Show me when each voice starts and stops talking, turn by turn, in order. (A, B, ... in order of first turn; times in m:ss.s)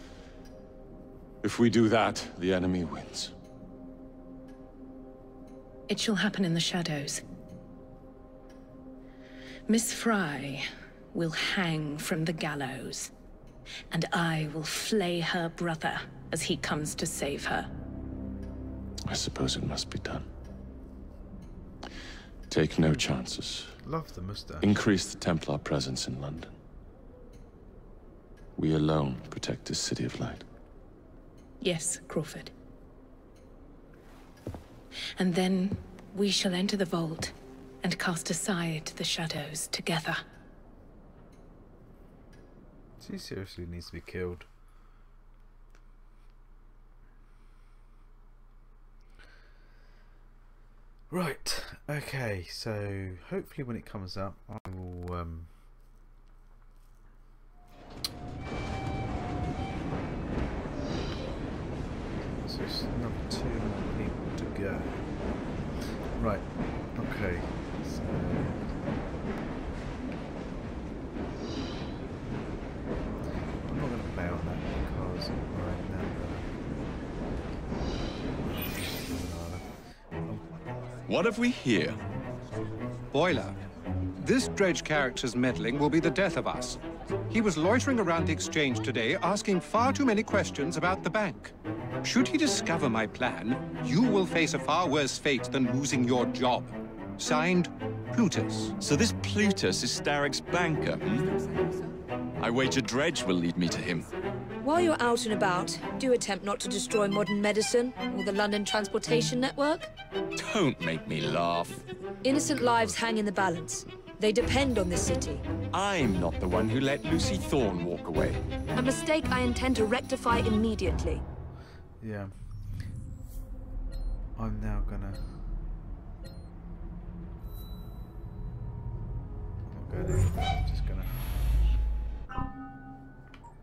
0:01.4-0:03.3 A
0:05.9-0:07.2 B
0:09.7-0:13.1 B
0:13.9-0:17.7 B
0:19.1-0:20.3 A
0:22.5-0:23.8 A
0:23.8-0:24.8 C
0:24.6-0:26.5 A
0:28.6-0:30.4 A
0:31.6-0:32.5 B
0:35.2-0:40.2 B
0:43.0-0:44.5 C
0:51.1-0:55.5 C
1:02.2-1:05.1 C
1:06.1-1:08.8 C
1:13.6-1:16.5 C
1:18.9-1:20.6 C
1:21.1-1:22.0 D
1:23.1-1:23.6 E
1:24.2-1:26.8 E
1:27.3-1:31.5 E
1:32.0-1:38.7 E
1:38.8-1:41.3 D
1:42.4-1:44.1 D
1:44.6-1:49.9 F
1:50.4-1:51.8 D
1:52.2-1:55.4 F
1:55.7-1:58.4 D
1:58.7-2:01.2 F
2:02.0-2:02.3 C
2:04.4-2:05.3 C
2:09.6-2:11.2 C